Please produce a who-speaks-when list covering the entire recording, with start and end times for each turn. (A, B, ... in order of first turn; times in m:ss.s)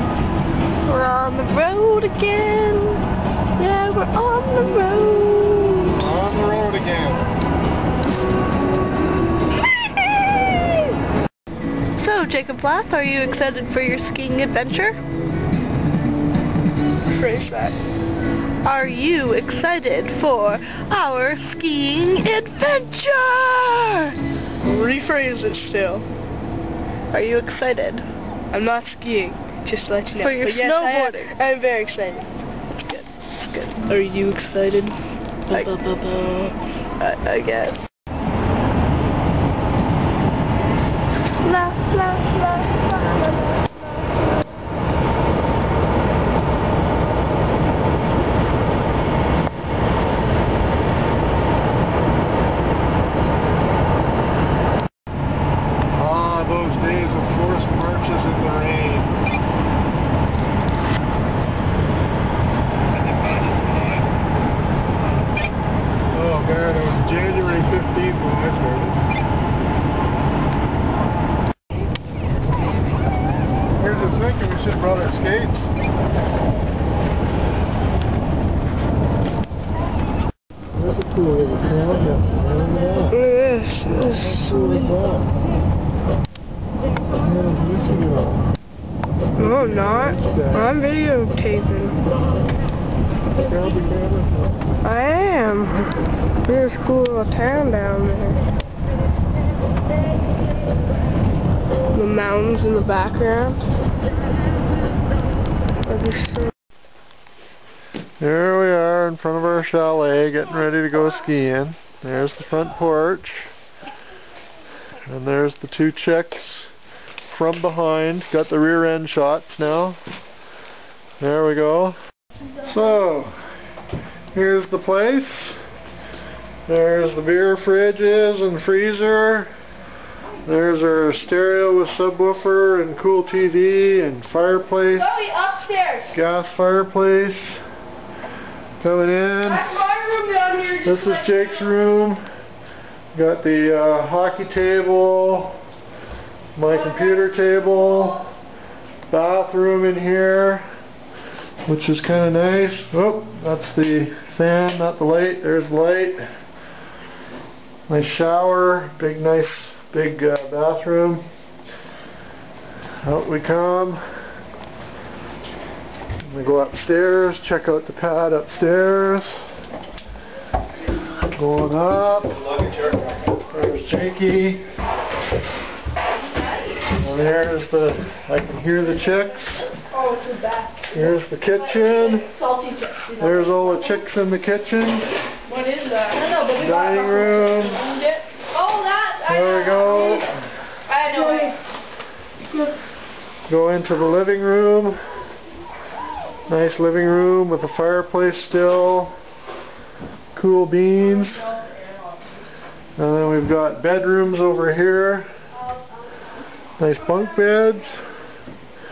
0:00.9-0:03.0 A
0:03.6-0:05.8 A
0:05.9-0:07.3 B
0:12.0-0:15.0 A
0:17.1-0:17.8 C
0:18.6-0:22.6 A
0:23.4-0:24.1 A
0:24.6-0:26.0 C
0:27.1-0:28.0 A
0:28.5-0:32.3 C
0:30.2-0:31.2 A
0:32.9-0:35.0 C
0:35.5-0:37.6 C
0:41.5-0:42.5 C
0:55.9-0:59.1 B
1:06.1-1:09.0 B
1:13.8-1:15.7 B
1:20.7-1:23.2 B
1:23.1-1:24.8 C
1:23.9-1:25.3 B
1:27.1-1:28.5 B
1:29.4-1:32.0 C
1:29.5-1:30.7 B
1:33.4-1:34.5 B
1:34.8-1:35.8 C
1:36.4-1:38.4 C
1:41.9-1:43.6 C
1:45.8-1:46.5 C
1:48.2-1:53.5 B
1:55.0-1:56.7 B
1:57.3-2:00.0 B
2:01.2-2:02.0 B
2:02.6-2:03.4 B
2:04.3-2:05.6 B
2:06.7-2:09.5 B
2:10.4-2:15.2 B
2:15.0-2:16.1 C
2:16.1-2:17.6 B
2:18.8-2:19.7 B
2:19.4-2:21.6 C
2:20.8-2:22.2 B
2:23.1-2:25.6 B
2:26.6-2:28.3 B
2:29.1-2:30.7 B
2:31.7-2:36.3 B
2:37.9-2:41.3 B
2:43.0-2:44.0 B
2:46.2-2:49.5 B
2:51.3-2:52.8 B
2:53.5-2:54.7 B
2:56.9-2:59.7 B
2:59.9-3:01.1 C
3:00.9-3:02.4 B
3:02.0-3:03.2 C
3:03.2-3:05.1 B
3:05.5-3:10.3 C
3:06.5-3:07.8 B
3:09.3-3:10.3 B
3:10.9-3:11.6 C
3:13.5-3:15.1 B
3:16.5-3:19.2 B
3:20.3-3:21.6 B
3:21.5-3:22.0 C
3:23.0-3:25.3 B
3:26.8-3:28.1 B